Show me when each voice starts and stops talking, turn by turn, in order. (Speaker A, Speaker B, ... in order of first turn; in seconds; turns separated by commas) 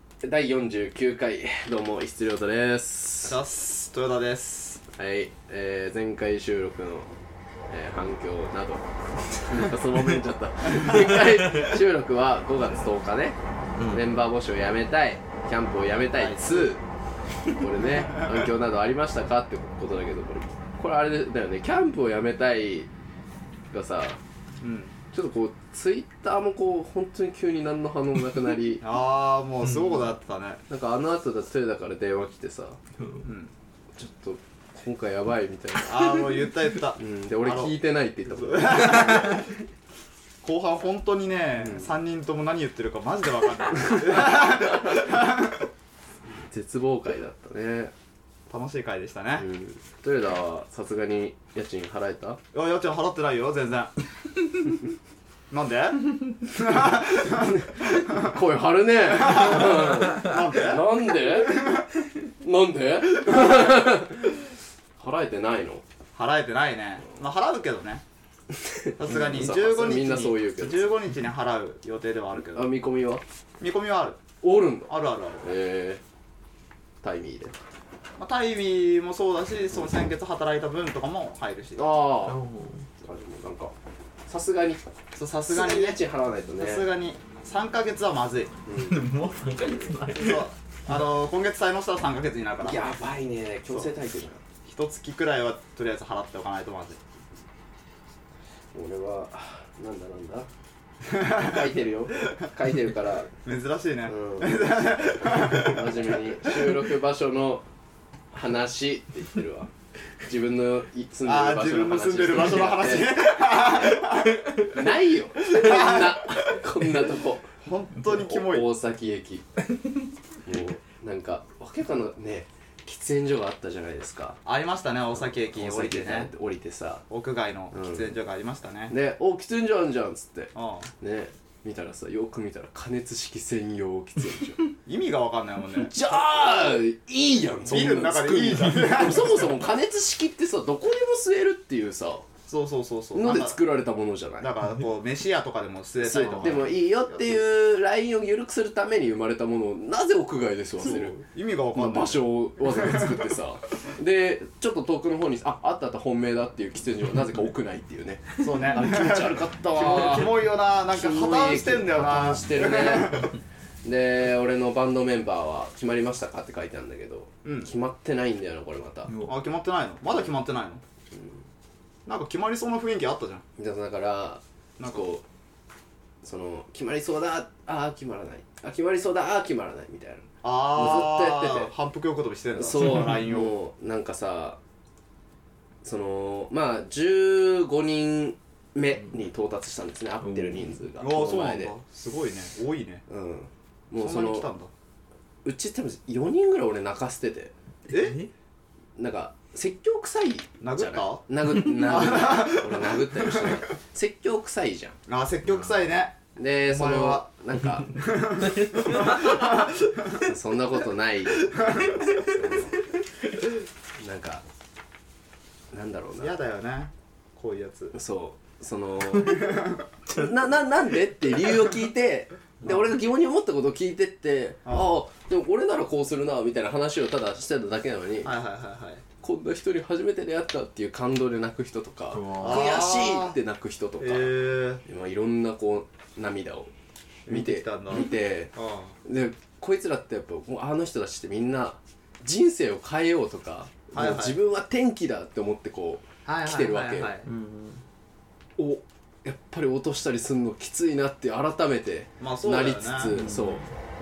Speaker A: 0.2-3.4, Speaker B: 3.2-4.8, Speaker A: 5.0-7.1, Speaker A: 7.7-13.4, Speaker C: 13.8-14.0, Speaker A: 13.9-16.8, Speaker B: 16.1-16.8, Speaker A: 17.5-22.9, Speaker A: 23.7-24.2, Speaker B: 24.6-24.9, Speaker A: 25.1-28.9, Speaker B: 28.8-30.6, Speaker A: 30.7-32.8, Speaker B: 33.2-33.5, Speaker A: 34.0-39.4, Speaker B: 35.8-39.5, Speaker B: 40.4-45.6, Speaker A: 43.9-44.6, Speaker A: 46.4-47.9, Speaker B: 48.5-49.5, Speaker A: 49.4-52.4, Speaker B: 52.5-54.8, Speaker B: 55.5-58.3, Speaker A: 57.2-61.8, Speaker B: 59.1-61.9, Speaker A: 62.4-64.4, Speaker A: 65.0-65.8, Speaker B: 66.2-68.0, Speaker A: 68.5-71.0, Speaker B: 69.0-72.7, Speaker A: 72.5-73.2, Speaker B: 73.6-74.2, Speaker A: 74.4-76.0, Speaker B: 74.9-75.5, Speaker A: 77.0-77.5, Speaker B: 78.2-81.8, Speaker A: 81.8-82.4, Speaker C: 82.2-82.8, Speaker A: 83.0-83.7, Speaker A: 84.3-84.8, Speaker B: 85.2-86.0, Speaker A: 85.5-86.9, Speaker B: 86.6-88.5, Speaker A: 88.7-89.0, Speaker C: 88.7-90.5, Speaker B: 90.2-92.9, Speaker A: 92.6-94.4, Speaker B: 94.7-97.0, Speaker A: 98.7-100.5, Speaker B: 101.0-101.7, Speaker A: 101.2-103.3, Speaker B: 103.4-106.5, Speaker A: 104.1-107.7, Speaker A: 108.3-109.7, Speaker A: 110.2-113.2, Speaker B: 111.2-114.6, Speaker A: 114.6-117.5, Speaker B: 115.5-116.6, Speaker B: 117.6-118.7, Speaker A: 118.0-119.5, Speaker A: 120.4-124.4, Speaker B: 124.4-126.3, Speaker A: 125.5-127.0, Speaker B: 127.1-128.9, Speaker A: 127.7-128.1, Speaker A: 128.9-134.7, Speaker B: 130.5-130.9, Speaker B: 134.8-135.9, Speaker A: 135.8-142.3, Speaker B: 137.7-139.5, Speaker B: 142.5-143.6, Speaker A: 143.1-144.5, Speaker B: 144.4-147.4, Speaker A: 146.0-151.2, Speaker B: 150.8-153.1, Speaker A: 151.7-163.3, Speaker B: 158.4-163.3, Speaker A: 163.8-169.1, Speaker B: 169.2-170.8, Speaker A: 171.1-171.4, Speaker B: 172.1-173.4, Speaker A: 173.6-175.2, Speaker A: 176.2-181.7, Speaker B: 180.4-183.5, Speaker A: 182.5-184.6, Speaker A: 185.8-191.7, Speaker C: 190.2-190.8, Speaker B: 191.0-193.0, Speaker A: 193.1-194.5, Speaker B: 194.0-194.7, Speaker A: 195.4-197.5, Speaker B: 197.9-198.2, Speaker C: 197.9-198.3, Speaker A: 199.0-205.0, Speaker B: 200.6-203.6, Speaker B: 205.1-207.3, Speaker A: 206.3-208.2, Speaker B: 207.9-210.1, Speaker A: 209.0-209.3, Speaker A: 210.2-211.7, Speaker B: 211.5-212.2, Speaker A: 212.2-212.8, Speaker A: 214.0-214.4, Speaker A: 215.7-216.3, Speaker B: 216.2-218.0, Speaker A: 217.9-228.4, Speaker B: 219.1-219.8, Speaker B: 224.7-225.0, Speaker B: 228.2-229.0, Speaker A: 229.2-236.7, Speaker C: 232.1-232.7, Speaker B: 232.4-233.4, Speaker B: 234.0-234.8, Speaker B: 237.3-238.9, Speaker A: 237.3-247.1, Speaker B: 243.9-244.4, Speaker B: 246.2-247.3, Speaker C: 247.2-247.8, Speaker A: 248.6-253.6, Speaker B: 252.2-253.2, Speaker C: 253.1-253.7